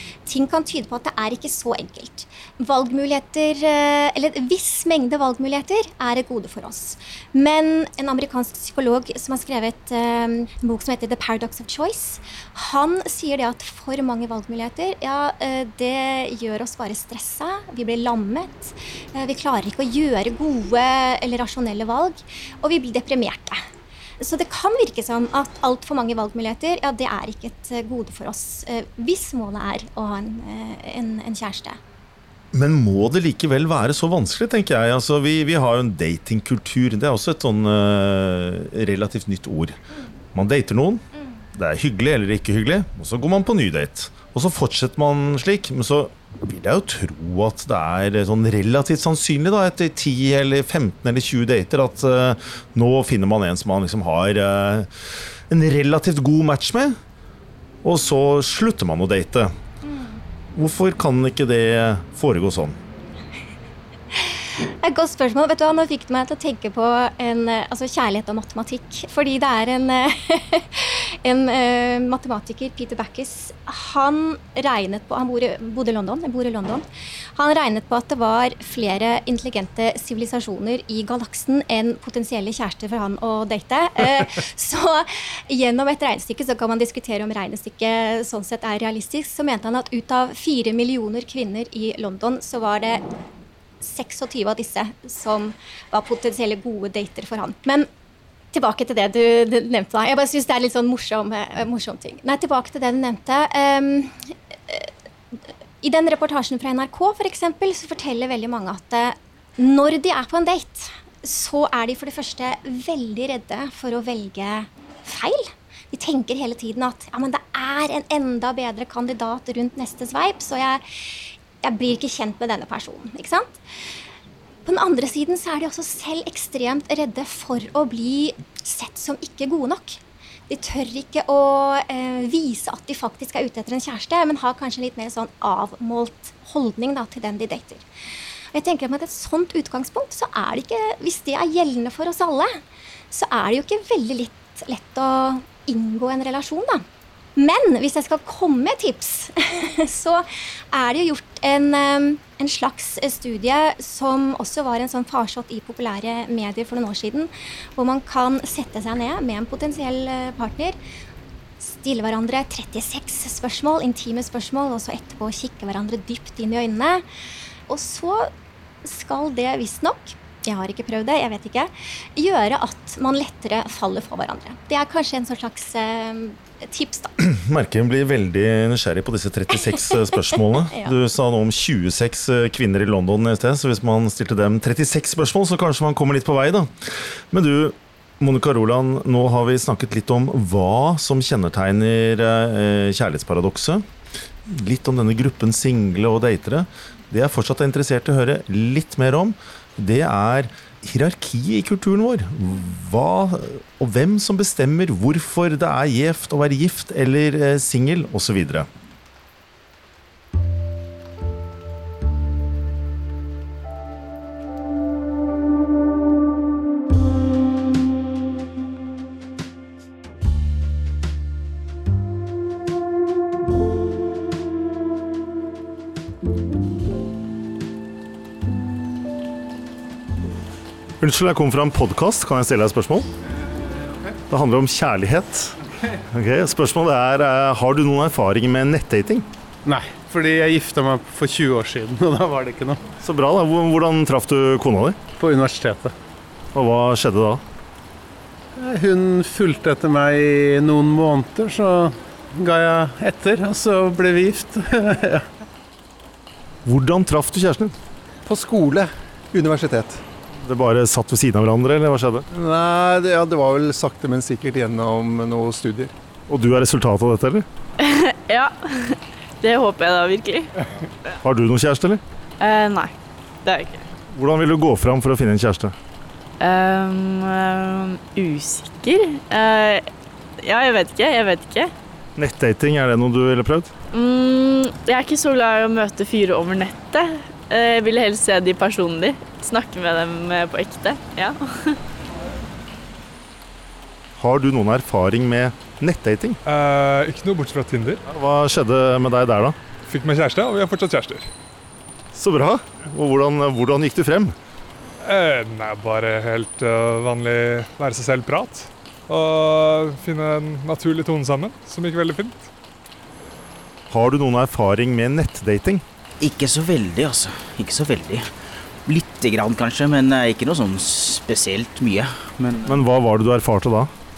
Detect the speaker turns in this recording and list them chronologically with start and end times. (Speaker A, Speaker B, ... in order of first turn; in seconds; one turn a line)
Speaker A: 0.3-23.6
Speaker A: 24.2-31.8
Speaker B: 32.5-39.8
Speaker B: 40.3-41.0
Speaker B: 41.5-54.9
Speaker B: 55.5-57.0
Speaker B: 57.8-59.5
Speaker A: 59.9-60.2
Speaker B: 60.5-62.8
Speaker A: 64.1-76.8
Speaker A: 77.4-93.0
Speaker A: 93.8-97.9
Speaker A: 98.5-104.9
Speaker A: 105.8-120.8
Speaker A: 121.6-123.6
Speaker A: 124.7-137.9
Speaker A: 138.5-142.6
Speaker A: 143.1-146.8
Speaker A: 147.4-160.8
Speaker A: 161.6-167.0
Speaker A: 167.7-168.3
Speaker A: 168.8-177.1
Speaker B: 177.2-193.8
Speaker A: 180.3-180.9
Speaker B: 194.5-208.7
Speaker B: 231.0-233.1
Speaker B: 234.3-239.3
Speaker C: 239.7-242.8
Speaker B: 243.0-245.0
Speaker C: 245.2-245.9
Speaker B: 246.5-247.4
Speaker C: 248.6-255.2
Speaker B: 256.6-257.8
Speaker D: 258.3-260.0
Speaker B: 260.4-262.3
Speaker D: 262.3-265.9
Speaker B: 266.3-267.5
Speaker E: 267.8-270.5
Speaker B: 271.2-272.0
Speaker E: 272.4-272.9
Speaker E: 273.4-273.9
Speaker B: 274.1-275.8
Speaker E: 276.4-279.9
Speaker E: 280.4-281.7
Speaker B: 282.2-283.7
Speaker E: 283.9-291.8
Speaker B: 294.2-296.4
Speaker F: 296.5-298.0
Speaker B: 298.1-299.6
Speaker F: 299.9-301.3
Speaker B: 302.1-304.4
Speaker F: 305.0-312.5
Speaker B: 313.9-315.8
Speaker G: 316.2-318.3
Speaker G: 318.9-322.7
Speaker B: 322.7-323.9